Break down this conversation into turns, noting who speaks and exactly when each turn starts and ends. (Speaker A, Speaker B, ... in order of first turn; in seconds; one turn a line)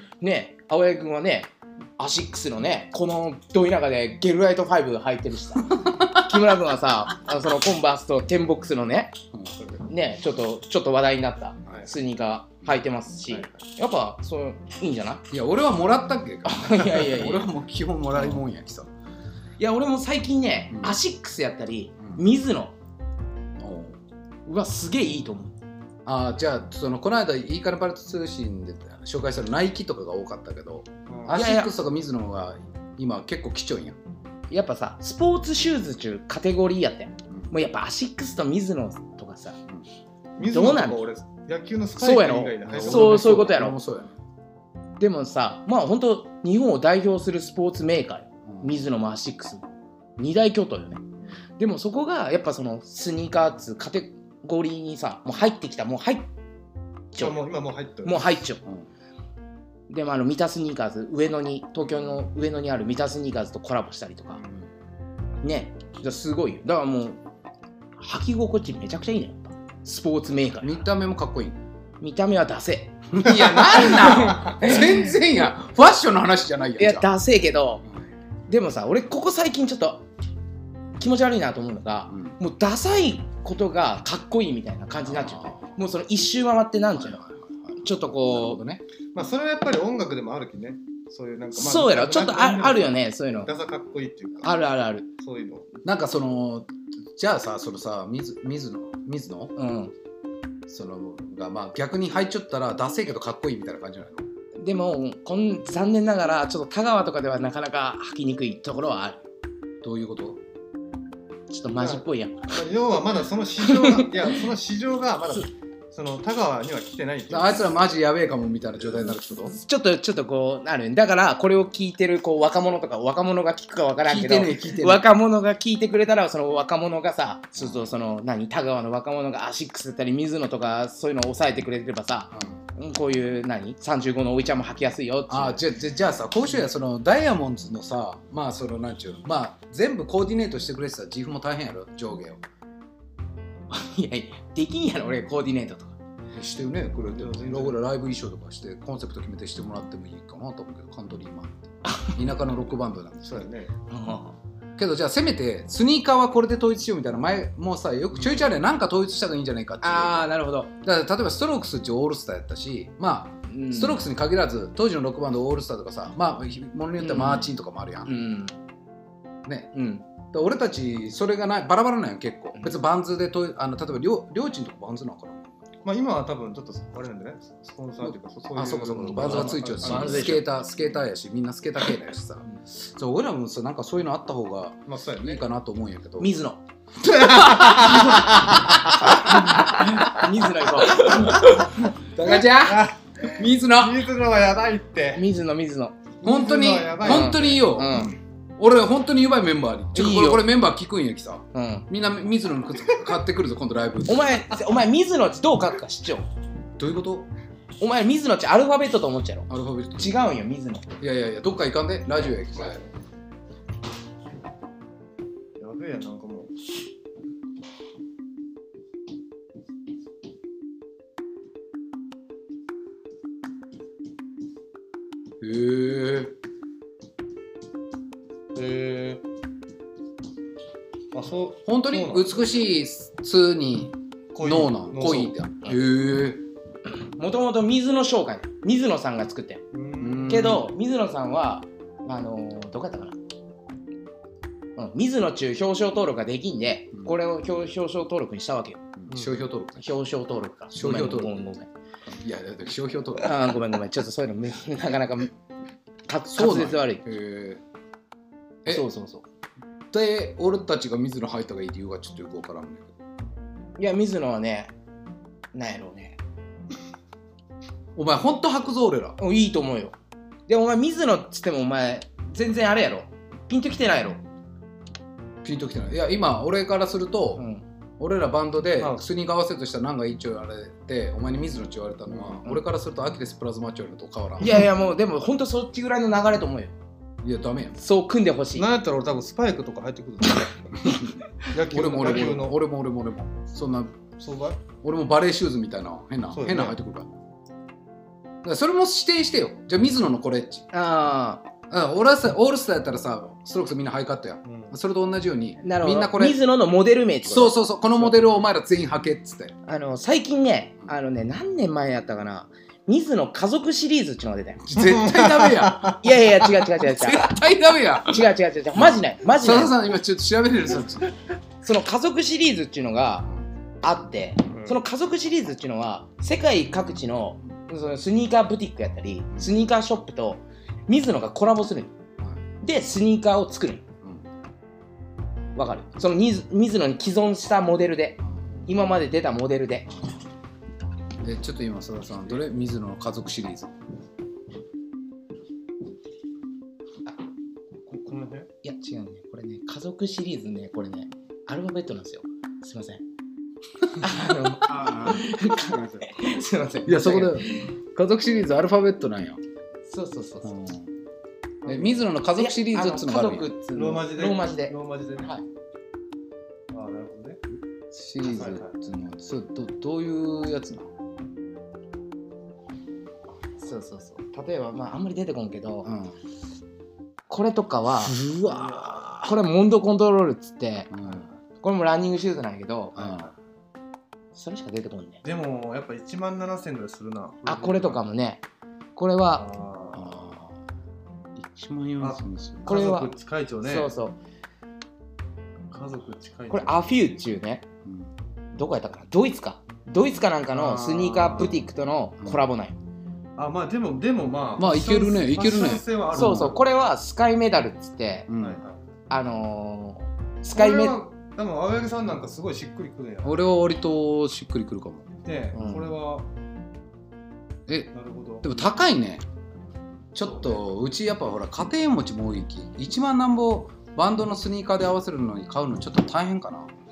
Speaker A: 0.2-9.2
Speaker B: 5.7-6.2
Speaker A: 9.9-15.2
Speaker C: 13.3-13.6
Speaker B: 15.3-18.9
Speaker A: 16.4-17.4
Speaker A: 18.1-18.4
Speaker A: 19.6-22.7
Speaker B: 20.7-20.9
Speaker B: 22.0-22.3
Speaker B: 23.6-24.0
Speaker A: 24.4-25.5
Speaker B: 26.0-34.0
Speaker C: 31.1-31.4
Speaker A: 31.3-31.7
Speaker A: 34.5-39.6
Speaker C: 40.4-43.5
Speaker A: 40.4-41.0
Speaker A: 42.0-43.8
Speaker B: 42.6-44.2
Speaker A: 45.0-49.6
Speaker B: 48.5-48.8
Speaker A: 50.2-51.0
Speaker A: 51.6-56.3
Speaker A: 57.1-57.4
Speaker C: 57.2-58.4
Speaker A: 58.0-58.6
Speaker A: 59.9-64.4
Speaker A: 65.4-67.2
Speaker A: 68.0-70.8
Speaker B: 70.6-71.6
Speaker A: 72.0-75.1
Speaker B: 73.1-77.1
Speaker A: 76.8-77.8
Speaker A: 78.5-80.0
Speaker A: 81.0-87.2
Speaker B: 82.1-82.3
Speaker B: 85.0-85.7
Speaker B: 87.0-88.8
Speaker A: 87.8-88.6
Speaker C: 89.1-94.7
Speaker A: 91.5-93.5
Speaker A: 94.4-95.1
Speaker C: 95.2-95.7
Speaker B: 95.8-99.5
Speaker A: 99.5-99.9
Speaker B: 100.7-104.3
Speaker A: 104.5-109.2
Speaker B: 109.8-110.4
Speaker A: 111.5-112.6
Speaker C: 111.7-117.7
Speaker A: 113.6-114.3
Speaker B: 117.3-119.5
Speaker A: 119.5-135.6
Speaker B: 124.0-125.0
Speaker B: 127.5-127.9
Speaker B: 132.3-132.6
Speaker B: 135.3-142.4
Speaker A: 143.7-146.0
Speaker B: 146.3-153.5
Speaker C: 147.0-147.8
Speaker A: 151.8-152.2
Speaker C: 153.2-153.7
Speaker A: 153.9-154.3
Speaker B: 154.8-160.3
Speaker C: 158.1-158.5
Speaker A: 159.8-160.7
Speaker B: 160.8-168.1
Speaker A: 163.5-164.0
Speaker A: 167.0-167.5
Speaker A: 168.1-168.6
Speaker B: 169.4-175.6
Speaker A: 169.7-170.0
Speaker C: 175.8-180.5
Speaker B: 178.0-186.4
Speaker A: 179.1-180.4
Speaker C: 184.9-185.4
Speaker A: 186.2-186.6
Speaker B: 187.1-190.2
Speaker A: 187.4-191.5
Speaker B: 190.8-194.0
Speaker C: 192.2-195.2
Speaker A: 195.1-196.0
Speaker C: 196.2-198.1
Speaker B: 196.2-204.4
Speaker A: 197.0-198.1
Speaker A: 199.9-200.5
Speaker A: 201.5-201.8
Speaker A: 204.1-206.3
Speaker B: 206.8-207.3
Speaker A: 207.8-210.9
Speaker B: 209.5-210.2
Speaker B: 211.0-212.8
Speaker C: 212.6-212.8
Speaker C: 215.6-216.5
Speaker B: 225.4-226.3
Speaker C: 228.5-229.2
Speaker C: 231.1-232.3
Speaker B: 231.6-236.4
Speaker C: 234.3-235.3
Speaker A: 236.9-239.6
Speaker C: 239.7-240.6
Speaker B: 240.0-240.7
Speaker A: 240.3-243.2
Speaker A: 244.8-248.8
Speaker B: 249.0-249.9
Speaker C: 249.1-249.4
Speaker A: 249.8-251.7
Speaker B: 250.7-251.3
Speaker B: 252.1-253.6
Speaker A: 253.2-255.3
Speaker A: 256.1-257.0
Speaker B: 256.3-257.6
Speaker A: 258.7-259.2
Speaker B: 259.9-262.9
Speaker A: 263.8-264.7
Speaker A: 265.5-266.2
Speaker B: 267.9-269.2
Speaker A: 269.2-269.9
Speaker A: 270.5-274.2
Speaker B: 275.4-277.4
Speaker A: 277.4-277.6
Speaker B: 278.0-284.6
Speaker C: 282.1-282.4
Speaker A: 284.4-286.7
Speaker B: 287.2-287.8
Speaker A: 287.8-288.7
Speaker C: 288.5-290.7
Speaker B: 290.8-294.0
Speaker C: 291.4-292.6
Speaker C: 294.2-294.6
Speaker B: 294.8-297.1
Speaker C: 296.3-296.8
Speaker B: 298.4-300.6
Speaker A: 300.7-301.4
Speaker B: 301.7-306.4
Speaker C: 304.4-304.7
Speaker A: 305.6-308.1
Speaker B: 307.2-309.6
Speaker A: 309.7-314.8
Speaker B: 314.6-316.0
Speaker C: 314.8-316.0
Speaker A: 315.9-317.3
Speaker B: 316.8-321.1
Speaker A: 317.9-319.8
Speaker A: 321.6-323.3
Speaker A: 323.8-331.9
Speaker C: 324.5-324.8
Speaker B: 329.3-329.6
Speaker A: 332.6-333.9
Speaker B: 334.0-334.3
Speaker A: 335.5-339.9
Speaker B: 341.2-343.7
Speaker C: 348.1-348.5
Speaker A: 348.6-353.0
Speaker A: 354.0-357.7
Speaker B: 354.7-355.1
Speaker B: 356.9-359.4
Speaker A: 359.9-360.5
Speaker B: 360.4-360.9
Speaker C: 361.6-362.0
Speaker B: 361.6-363.5
Speaker A: 362.4-365.4
Speaker C: 363.7-365.3
Speaker C: 366.7-367.4
Speaker B: 367.9-370.9
Speaker C: 368.2-368.7
Speaker A: 373.6-375.9
Speaker B: 375.8-376.1
Speaker A: 377.3-378.2
Speaker B: 378.0-379.3
Speaker C: 378.5-378.8
Speaker A: 379.2-380.9
Speaker B: 380.9-381.3
Speaker A: 381.6-383.1
Speaker C: 383.0-383.3
Speaker B: 383.0-383.3
Speaker A: 384.3-385.2
Speaker C: 385.2-388.0
Speaker A: 387.4-388.4
Speaker A: 388.9-389.5
Speaker C: 389.3-390.1
Speaker B: 389.9-390.6
Speaker B: 391.4-392.8
Speaker C: 392.0-393.9
Speaker A: 392.6-394.2
Speaker C: 395.7-396.9
Speaker A: 396.5-397.6
Speaker B: 397.8-398.1
Speaker A: 398.5-402.8
Speaker C: 400.5-401.5
Speaker C: 403.4-406.6
Speaker B: 404.6-406.6
Speaker A: 406.1-408.3
Speaker B: 408.3-408.6
Speaker C: 408.4-408.8
Speaker A: 409.1-411.0
Speaker C: 410.5-413.4
Speaker B: 413.2-415.1
Speaker C: 415.2-416.3
Speaker A: 415.5-415.9
Speaker B: 417.7-419.2
Speaker C: 417.9-418.7
Speaker B: 420.1-426.7
Speaker C: 420.2-420.6